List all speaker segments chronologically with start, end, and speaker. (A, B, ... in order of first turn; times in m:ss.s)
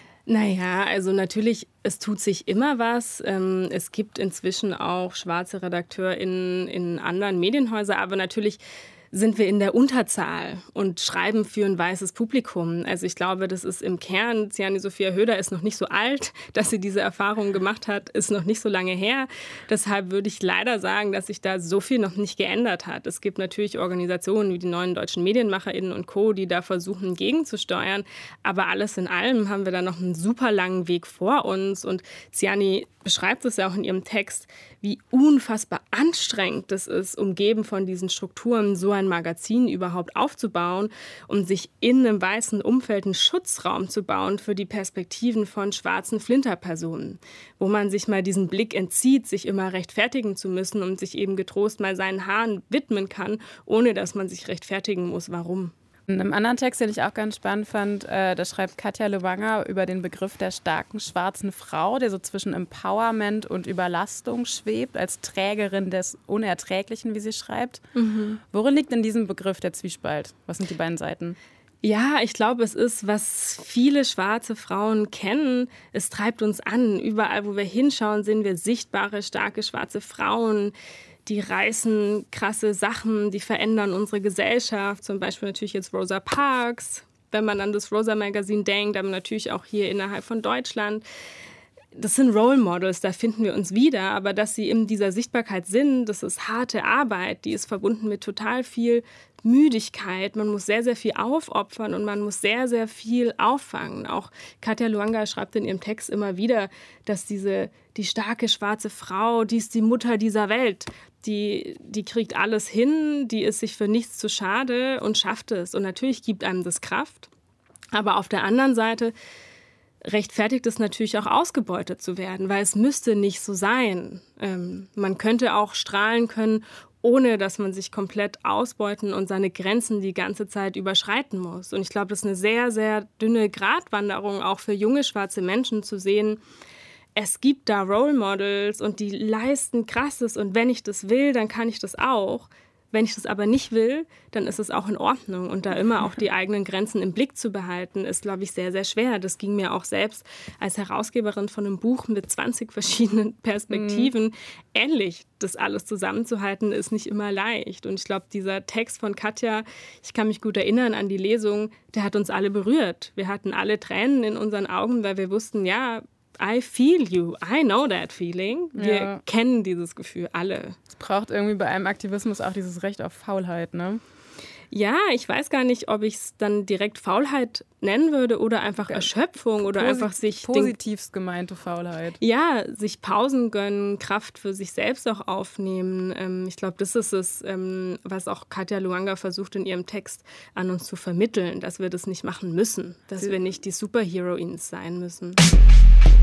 0:00.3-0:55.7 A
0:56.1-1:07.8 B
1:07.9-1:08.4 A
1:08.5-1:11.4 B
1:11.8-1:20.7 A
1:21.2-1:31.0 A
1:32.0-1:57.3 A
1:57.9-1:59.1 A
2:00.0-2:16.4 A
2:17.1-2:50.8 A
2:33.7-2:34.1 B
2:48.7-2:49.2 B
2:50.9-2:54.0 B
2:54.7-3:00.8 A
2:59.6-3:02.2 B
3:02.2-3:15.4 A